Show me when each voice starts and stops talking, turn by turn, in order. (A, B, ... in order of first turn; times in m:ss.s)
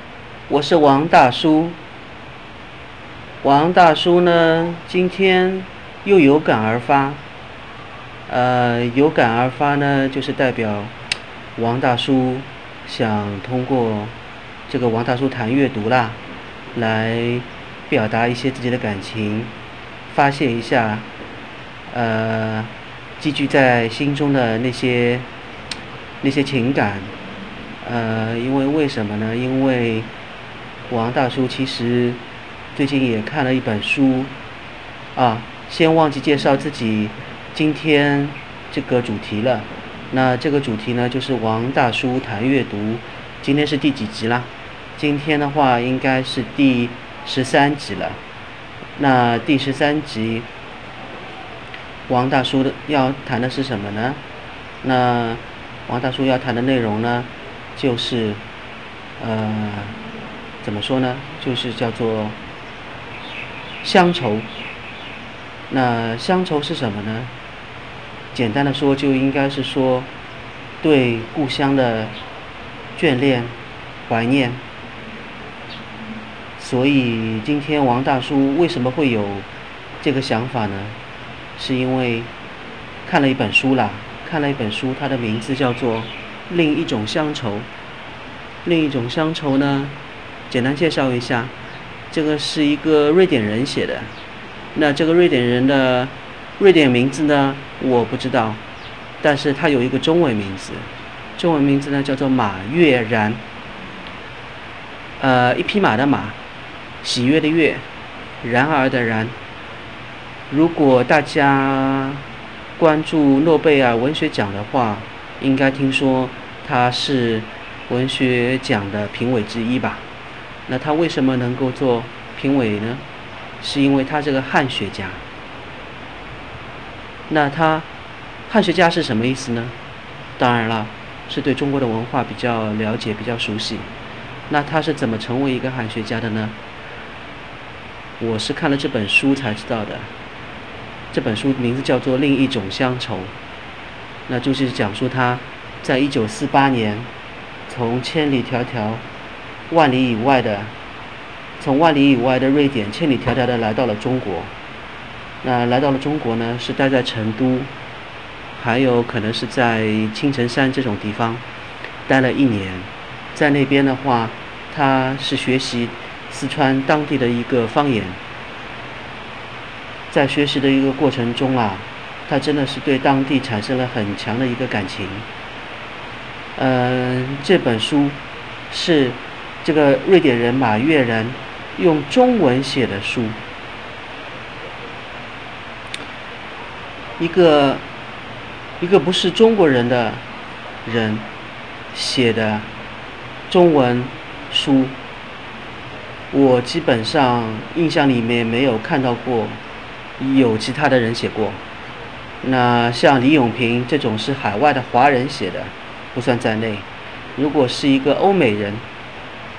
0:00.5-0:01.8 A
0:03.4-0:07.2 A
0:08.3-0:10.9 A
0:11.6-0:14.1 A
0:14.7-0:16.2 A
0:16.8-0:19.5 A
0:20.1-0:21.1 A
0:21.9-0:25.3 A
0:26.2-0:27.1 A
0:27.8-0:30.1 A
0:30.9-0:32.2 A
0:32.8-0:34.3 A
0:35.2-0:48.2 A
0:49.0-0:50.5 A
0:52.1-0:54.2 A
0:54.8-0:58.4 A
0:59.2-1:00.0 A
1:00.6-1:02.4 A
1:03.8-1:04.5 A
1:05.7-1:07.3 A
1:08.3-1:10.1 A
1:10.8-1:12.2 A
1:13.0-1:13.6 A
1:14.1-1:14.6 A
1:16.6-1:19.5 A
1:20.0-1:21.0 A
1:21.6-1:22.3 A
1:23.1-1:27.7 A
1:28.6-1:30.0 A
1:30.5-1:31.5 A
1:32.1-1:34.1 A
1:34.8-1:38.6 A
1:39.2-1:43.4 A
1:45.2-1:46.4 A
1:47.0-1:47.8 A
1:48.4-1:49.4 A
1:50.5-1:52.2 A
1:52.8-2:00.0 A
2:00.7-2:03.0 A
2:03.6-2:05.2 A
2:07.3-2:07.9 A
2:08.5-2:09.8 A
2:10.4-2:13.9 A
2:14.5-2:16.6 A
2:18.2-2:20.1 A
2:21.1-2:23.3 A
2:24.3-2:27.1 A
2:27.7-2:29.0 A
2:29.7-2:30.7 A
2:31.6-2:34.5 A
2:35.4-2:37.7 A
2:38.6-2:41.4 A
2:42.1-2:48.2 A
2:50.1-2:55.3 A
2:56.6-2:58.2 A
2:58.7-3:03.4 A
3:07.2-3:07.8 A
3:08.8-3:10.2 A
3:10.8-3:11.3 A
3:11.9-3:12.7 A
3:13.5-3:15.0 A
3:16.3-3:19.6 A
3:20.2-3:21.6 A
3:22.4-3:28.8 A